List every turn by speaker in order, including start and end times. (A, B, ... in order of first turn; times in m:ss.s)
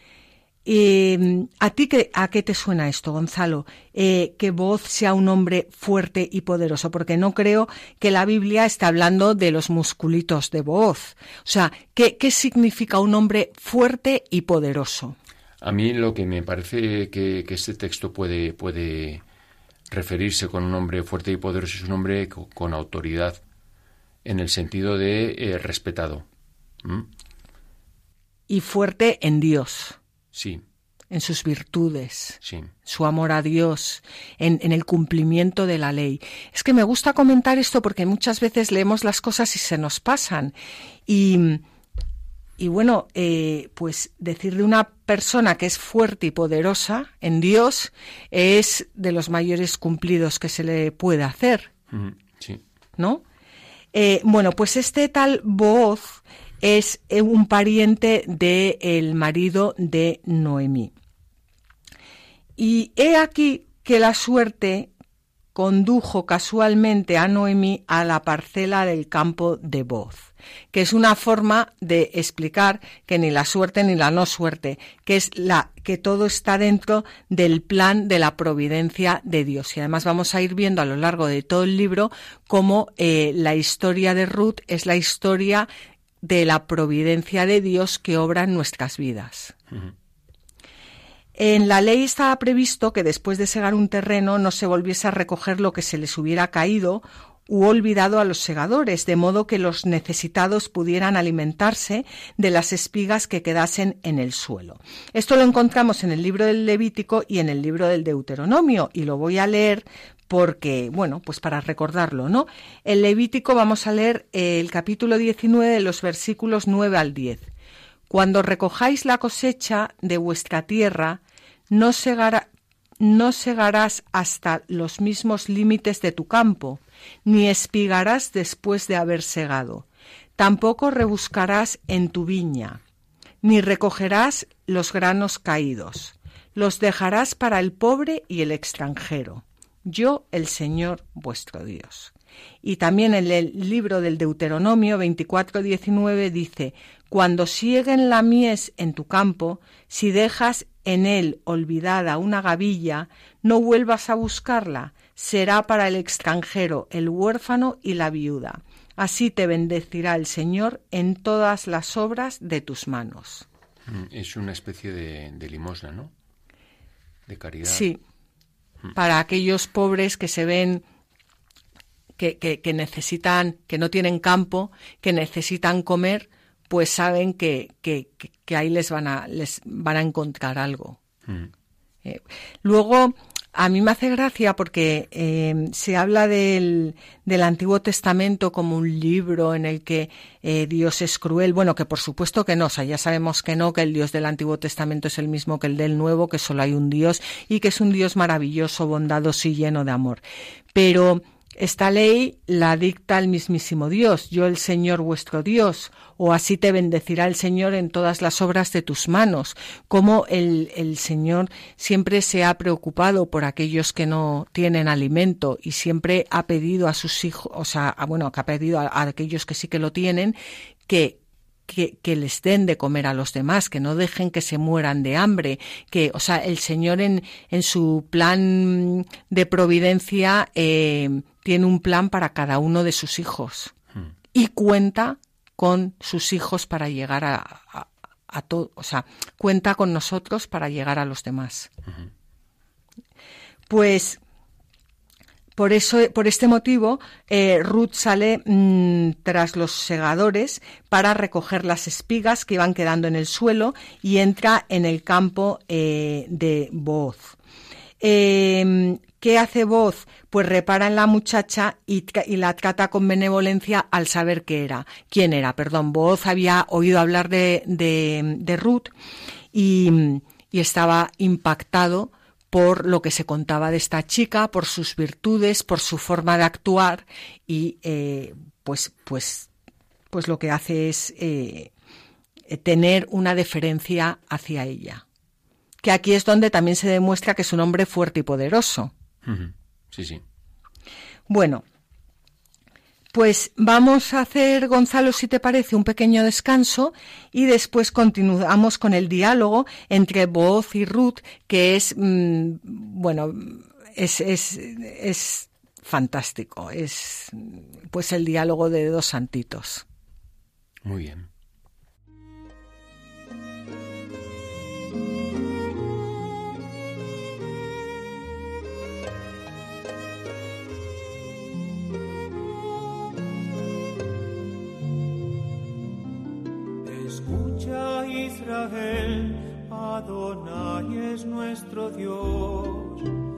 0:00.6-0:15.2 A
0:15.6-0:19.2 B
0:19.9-0:23.4 B
0:24.2-0:26.2 B
0:26.8-0:27.1 B
0:28.5-0:30.0 A
0:30.3-0:30.6 B
0:31.1-0:40.5 A
0:32.4-0:32.7 B
0:41.1-0:41.6 A
0:42.6-0:51.7 A
0:51.9-0:52.6 B
0:53.0-0:53.2 A
0:53.9-1:00.9 A
1:02.6-1:04.9 A
1:05.5-1:25.7 A
1:26.2-1:29.5 A
1:31.4-1:57.4 A
1:58.1-2:02.5 A
2:03.0-2:09.8 A
2:10.4-2:12.8 A
2:13.4-2:43.4 A
2:43.8-2:46.1 B
2:47.3-2:47.9 B
2:47.6-2:48.0 A
2:48.9-2:50.8 A
2:52.2-3:01.0 A
3:02.0-3:20.2 A
3:20.7-3:53.7 A
3:54.3-4:01.7 A
4:03.7-4:04.2 A
4:05.6-4:17.4 A
4:18.0-4:28.9 A
4:29.5-4:39.5 A
4:40.1-4:41.7 A
4:42.5-4:45.0 A
4:45.8-4:48.9 A
4:49.2-4:50.2 B
4:51.3-4:51.6 A
4:53.1-5:09.8 A
5:10.8-5:11.3 B
5:26.8-5:33.2 C